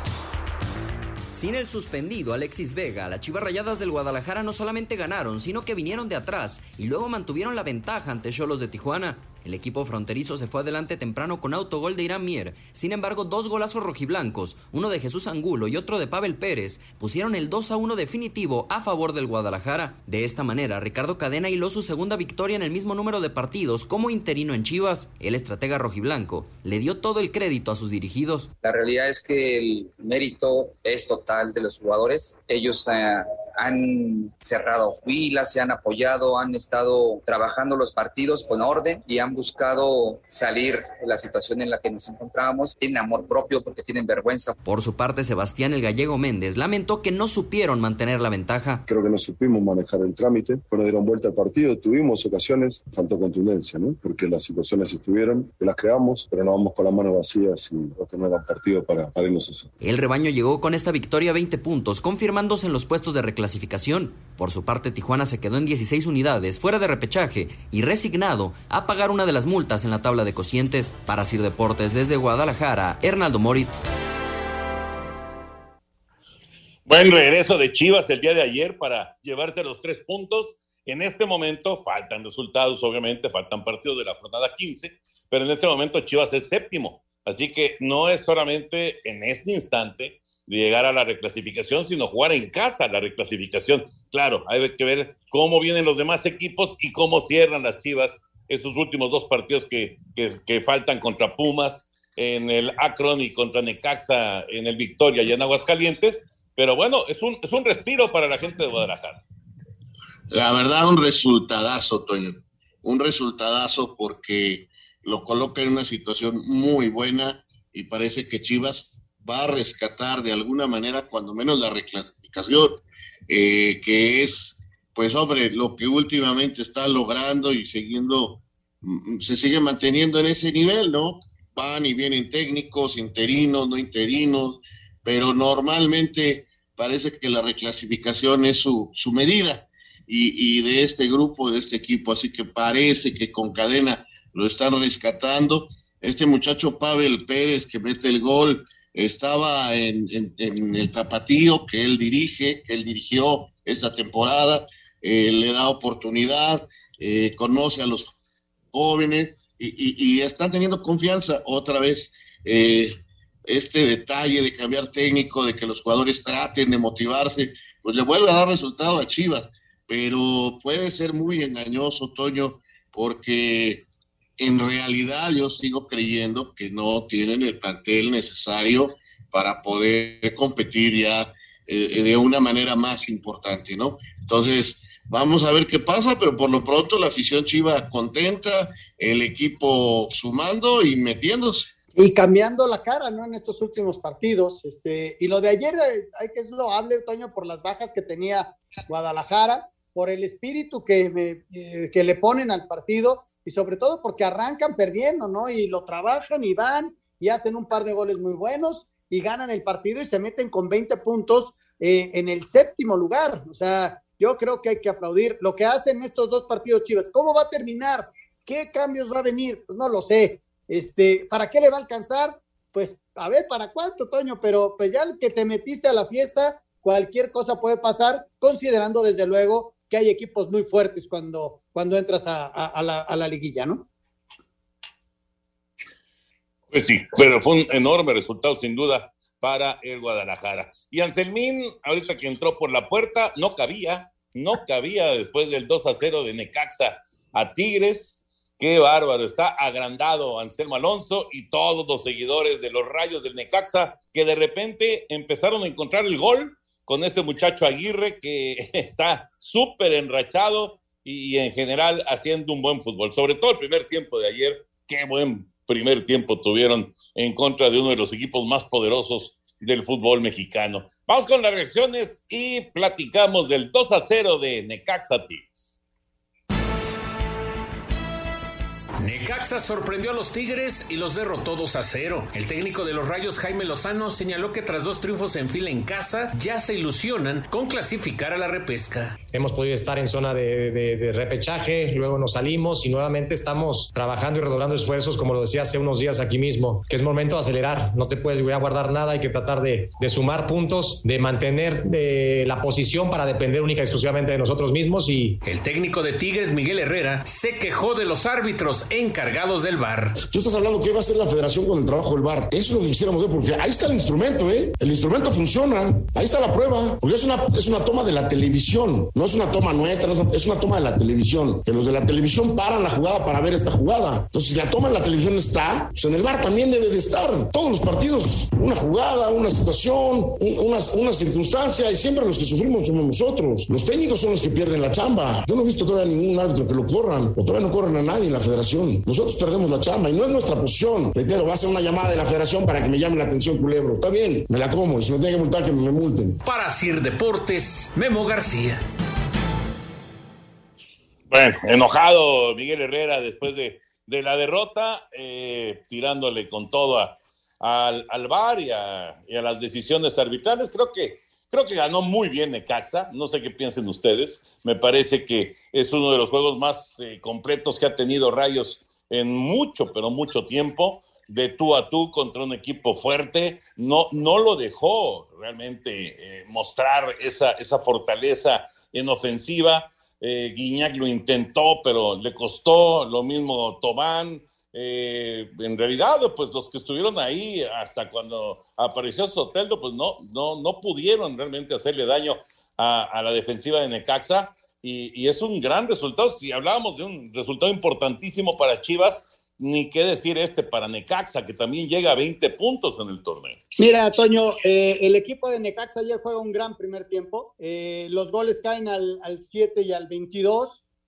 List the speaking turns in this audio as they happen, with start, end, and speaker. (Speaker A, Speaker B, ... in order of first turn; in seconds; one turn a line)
Speaker A: 1.3-28.5
Speaker B: 28.6-44.6
Speaker A: 44.6-48.8
Speaker C: 48.9-59.7
Speaker A: 59.8-73.9
Speaker D: 76.8-109.2
Speaker E: 110.3-122.7
Speaker E: 123.3-158.1
Speaker E: 158.7-162.9
Speaker E: 163.5-173.8
Speaker E: 174.4-191.7
Speaker F: 191.9-233.8
Speaker D: 236.7-275.8
Speaker G: 279.0-289.2
Speaker H: 289.3-305.4
Speaker G: 305.4-310.2
Speaker I: 310.2-346.4
Speaker G: 346.4-348.8
Speaker D: 351.3-403.6
Speaker F: 403.8-410.8